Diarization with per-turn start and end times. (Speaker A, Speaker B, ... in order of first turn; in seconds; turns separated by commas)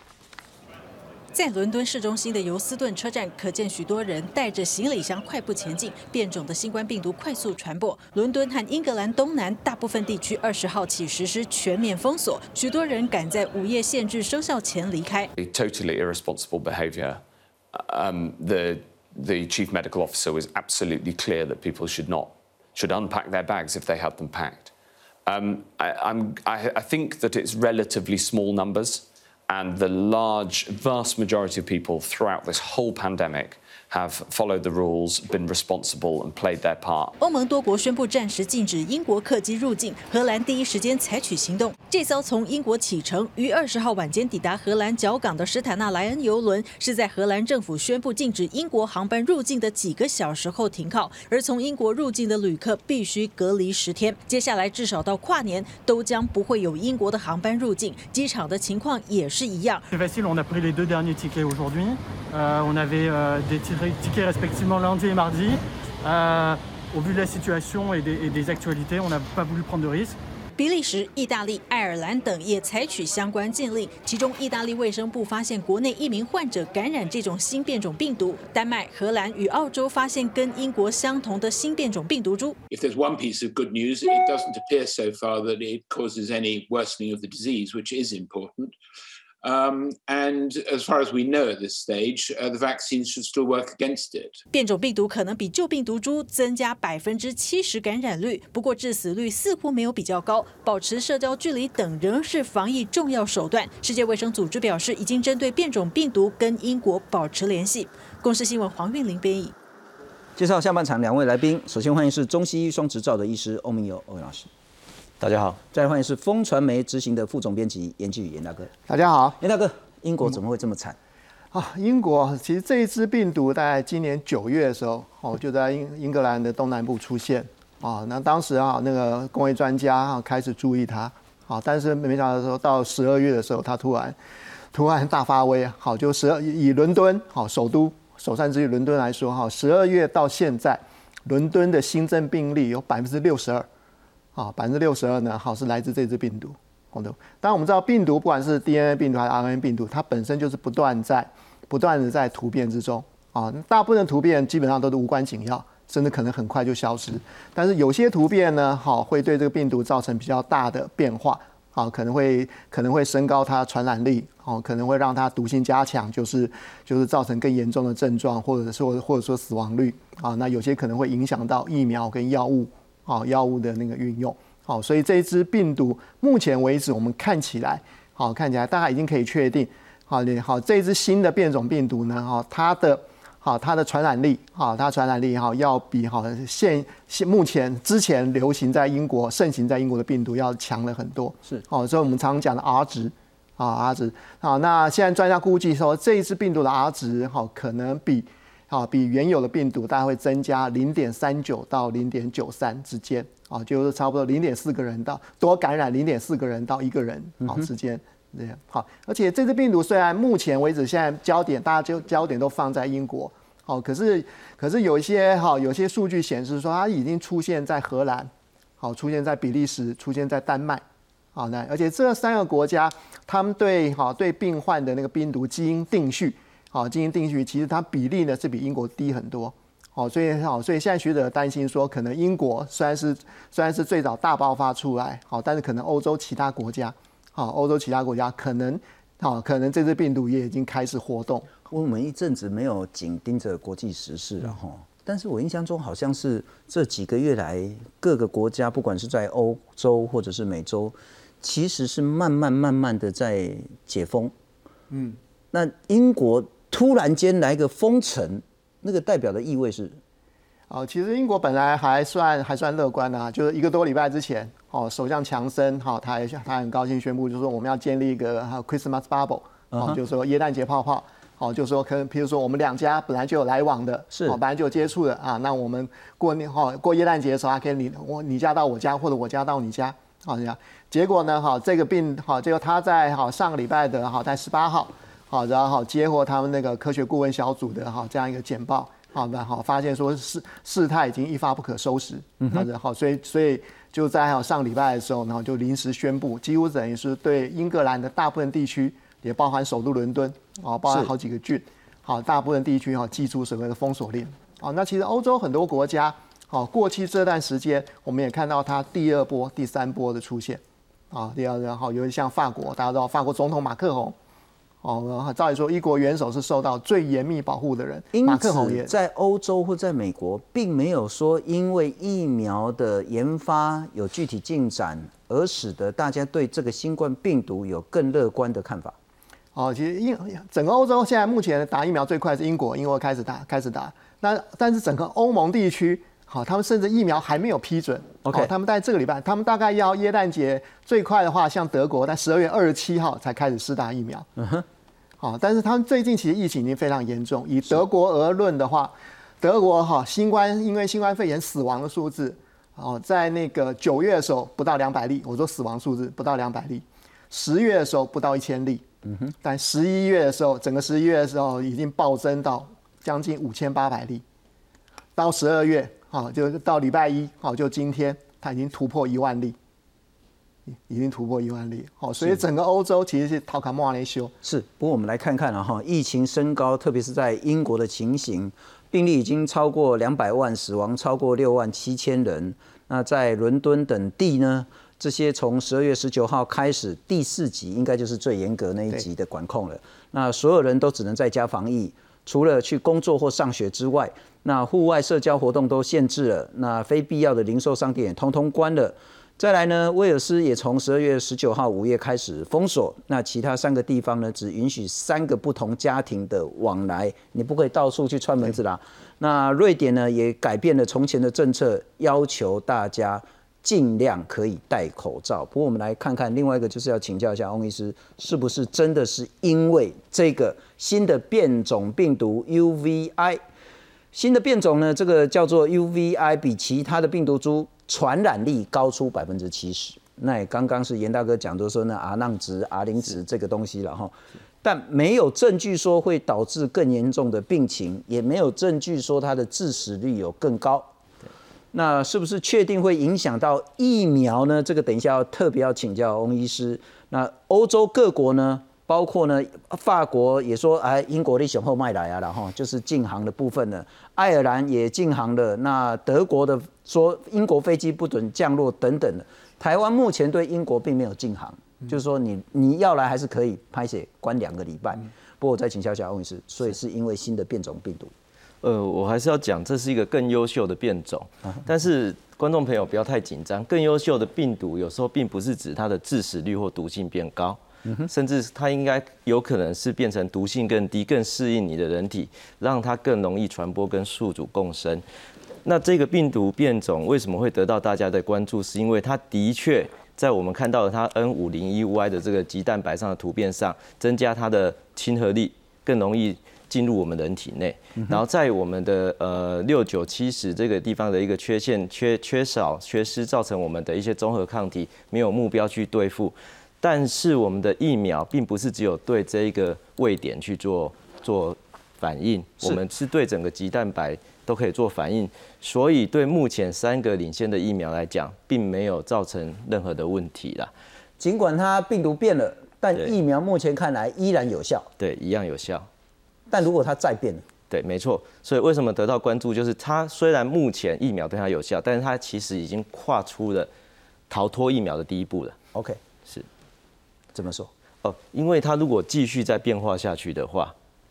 Speaker A: 1.3-15.3, Speaker B: 15.3-17.2, Speaker B: 17.7-24.7, Speaker B: 25.2-37.1, Speaker A: 37.2-59.8, Speaker C: 59.9-70.1, Speaker A: 70.6-82.6, Speaker D: 82.7-88.7, Speaker D: 89.4-94.4, Speaker A: 94.5-109.5, Speaker E: 110.4-114.5, Speaker F: 115.2-115.6, Speaker E: 115.7-118.7, Speaker G: 118.9-119.4, Speaker E: 119.4-121.0, Speaker G: 121.5-134.2, Speaker G: 134.7-143.7, Speaker G: 144.3-220.8, Speaker G: 221.3-241.5, Speaker E: 241.7-254.3, Speaker G: 254.9-255.2, Speaker E: 255.5-260.0, Speaker G: 260.7-314.1, Speaker E: 269.7-270.0, Speaker E: 274.1-274.4, Speaker G: 314.8-318.9, Speaker E: 318.1-328.9, Speaker G: 329.5-344.3, Speaker E: 338.2-338.5, Speaker E: 344.4-344.6, Speaker G: 345.2-358.8, Speaker E: 359.1-359.3, Speaker G: 359.4-364.2, Speaker G: 365.1-369.6, Speaker G: 370.8-374.3, Speaker E: 374.4-423.4, Speaker E: 424.1-440.9, Speaker E: 441.7-468.1, Speaker F: 468.6-485.0, Speaker E: 477.8-478.1, Speaker F: 485.6-520.7, Speaker E: 521.2-524.9, Speaker F: 525.0-525.9, Speaker E: 526.5-527.5, Speaker F: 527.7-533.7, Speaker F: 534.3-535.6, Speaker E: 535.7-536.0, Speaker E: 537.3-537.7, Speaker F: 538.0-540.7